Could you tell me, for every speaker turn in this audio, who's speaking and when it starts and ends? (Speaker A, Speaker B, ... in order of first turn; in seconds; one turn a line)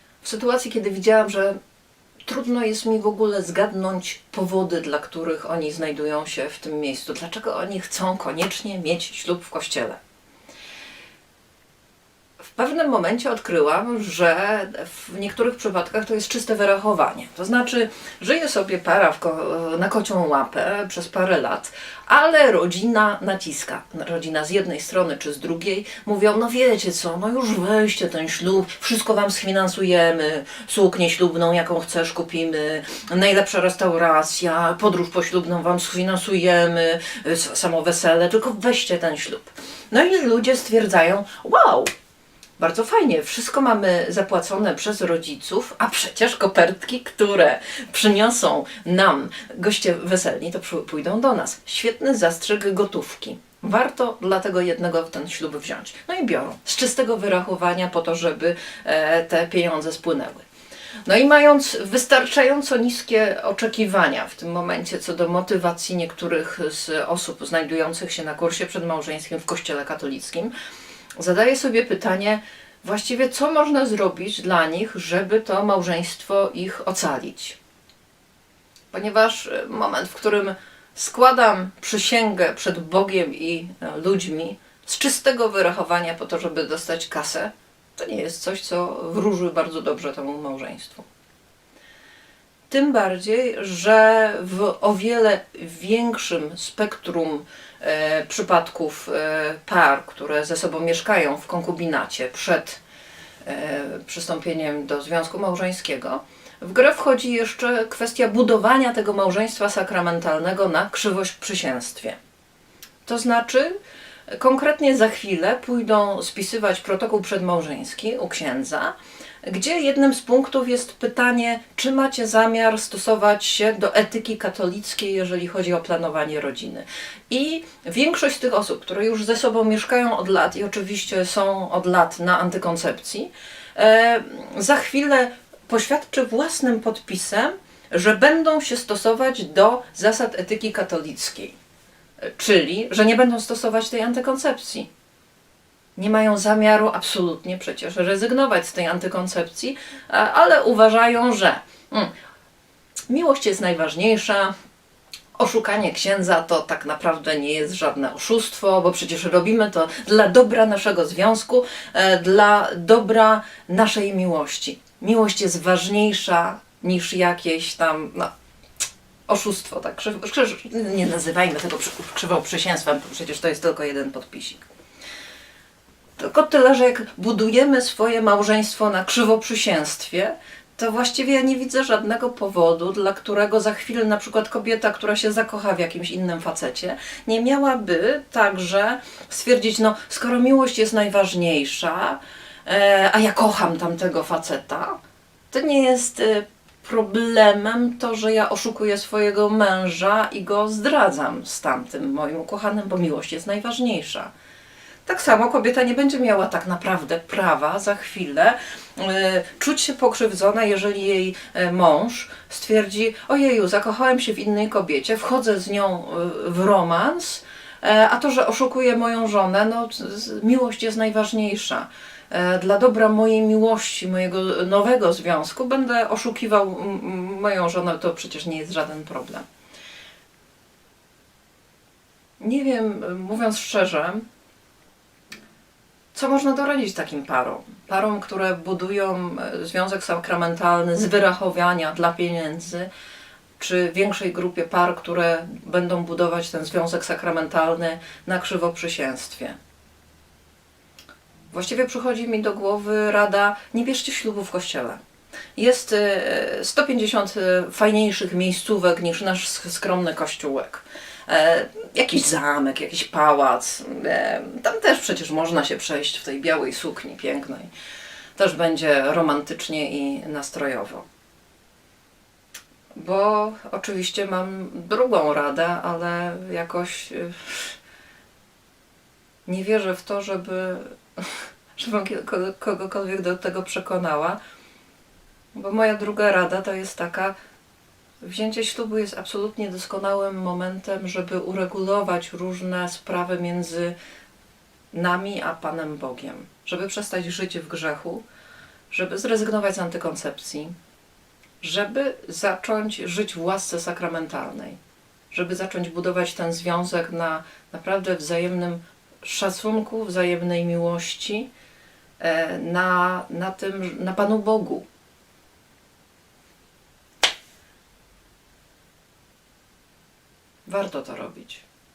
Speaker A: 0.2-1.6
Speaker A: 2.3-10.0
Speaker A: 12.4-41.9
Speaker A: 42.6-60.5
Speaker A: 61.0-70.5
Speaker A: 71.2-77.6
Speaker A: 78.9-91.0
Speaker A: 92.7-102.8
Speaker A: 103.4-112.2
Speaker A: 113.0-113.8
Speaker A: 114.3-141.5
Speaker A: 142.2-144.9
Speaker A: 146.0-152.1
Speaker A: 153.1-154.5
Speaker A: 155.3-168.3
Speaker A: 169.3-174.7
Speaker A: 176.2-195.0
Speaker A: 195.5-204.3
Speaker A: 205.1-229.4
Speaker A: 232.4-234.2
Speaker A: 236.1-242.9
Speaker A: 243.6-249.6
Speaker A: 251.5-255.0
Speaker A: 255.6-267.7
Speaker A: 268.4-271.0
Speaker A: 272.9-277.8
Speaker A: 279.4-284.4
Speaker A: 285.5-287.3
Speaker A: 288.2-293.9
Speaker A: 294.9-298.2
Speaker A: 298.9-300.7
Speaker A: 301.6-304.8
Speaker A: 305.3-311.5
Speaker A: 312.2-314.9
Speaker A: 320.6-321.6